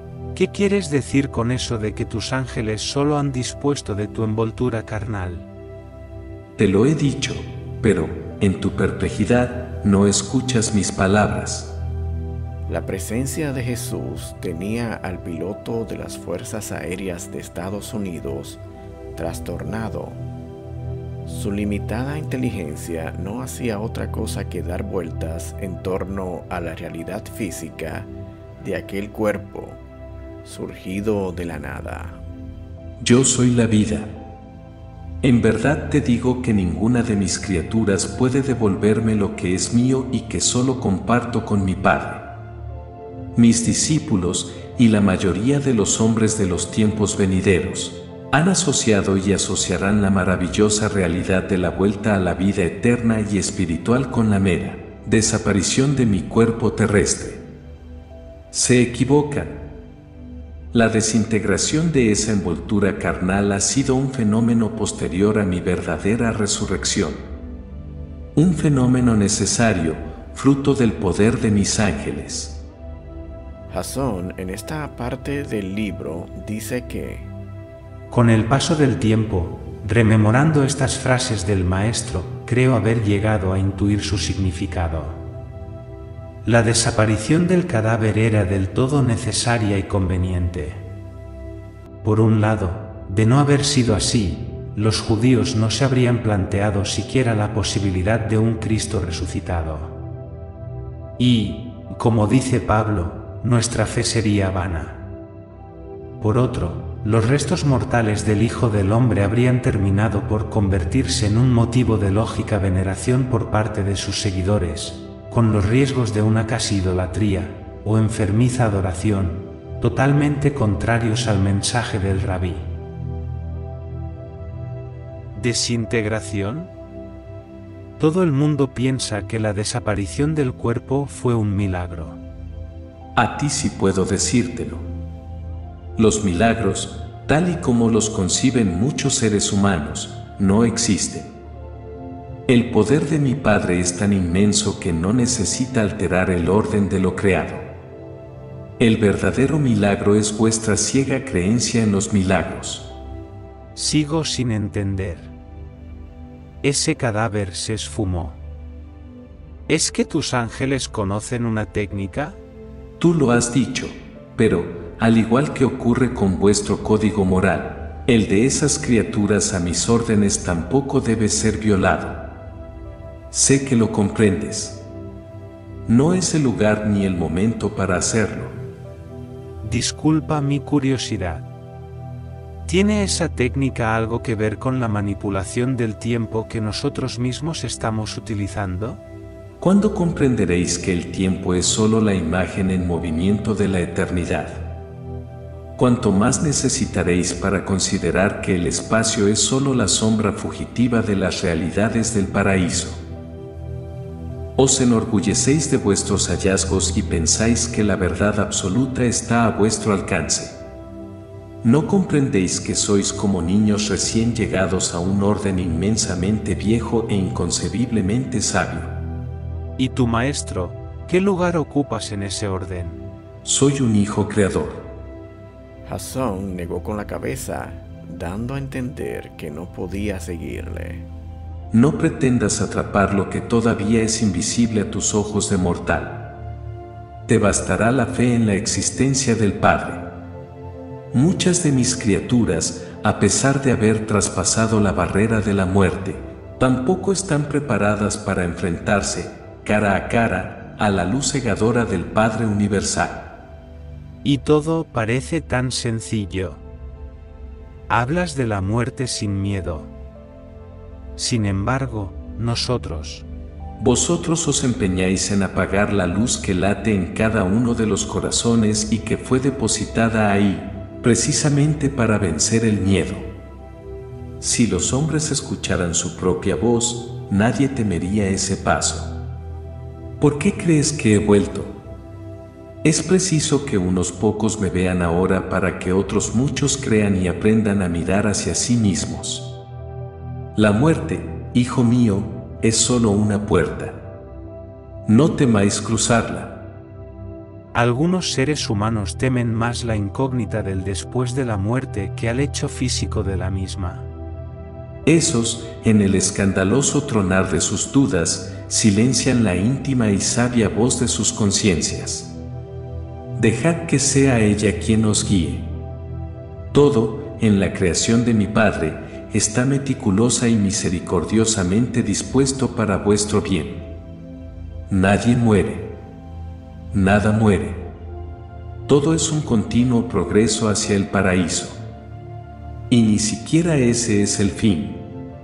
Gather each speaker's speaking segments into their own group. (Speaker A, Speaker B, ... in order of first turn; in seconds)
Speaker A: 0.3-5.5, 78.1-85.2, 86.4-90.8, 92.0-100.0, 101.2-105.0, 106.2-122.7, 125.3-126.7, 128.0-132.2, 153.7-155.3, 156.6-158.4, 159.7-162.4, 179.6-181.5, 182.7-189.0, 219.8-223.0, 254.2-256.6, 257.9-259.9, 261.1-263.2, 297.7-304.1
Speaker B: 6.6-11.8, 33.0-34.1, 35.2-42.4, 43.3-57.4, 58.5-59.7, 60.7-67.2, 68.3-72.6, 133.1-134.8, 135.9-141.3, 142.5-147.7, 148.8-152.9, 163.0-172.4, 173.3-174.8, 175.8-178.6, 189.6-194.7, 195.8-203.0, 204.6-210.6, 211.6-218.9, 223.4-224.9, 231.7-236.3, 237.2-240.1, 241.1-253.4, 263.8-273.3, 274.4-279.1, 280.2-281.8, 282.8-289.6, 290.5-294.0, 295.1-296.6, 305.0-312.4, 313.3-315.8, 316.7-323.9, 324.9-326.0, 326.9-327.9, 328.9-331.8, 332.9-335.1
Speaker C: 12.7-18.6, 19.1-20.2, 21.2-29.8, 30.4-32.2, 73.7-77.3, 225.8-231.1